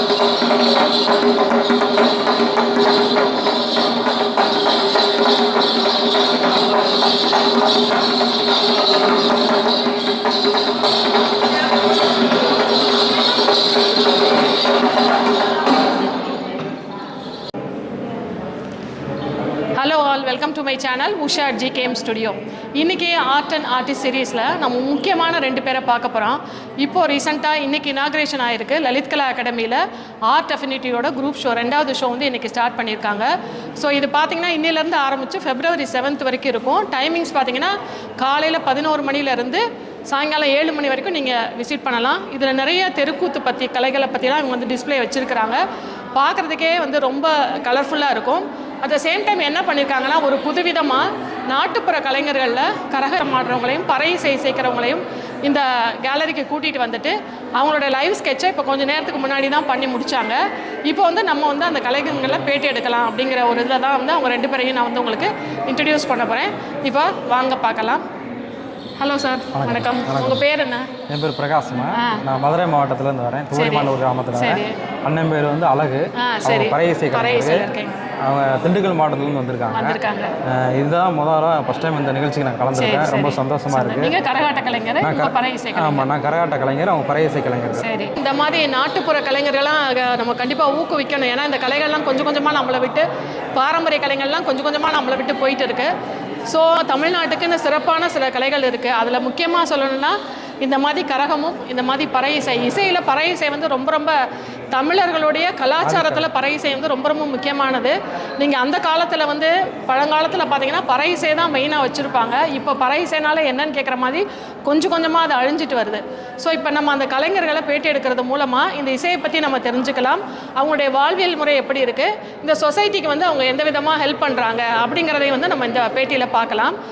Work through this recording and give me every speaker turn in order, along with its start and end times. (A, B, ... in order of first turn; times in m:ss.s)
0:19.8-0:45.6 A
0:46.2-1:08.0 A
1:09.0-1:10.9 A
1:09.5-1:10.4 B
1:11.1-1:17.7 B
1:12.0-1:12.2 A
1:13.5-1:14.8 A
1:16.2-1:18.0 A
1:18.2-1:24.1 B
1:19.7-1:20.3 A
1:22.7-1:26.1 A
1:25.0-1:27.8 B
1:27.8-1:35.9 A
1:36.5-1:44.2 A
1:44.7-2:06.8 A
1:45.8-1:46.3 B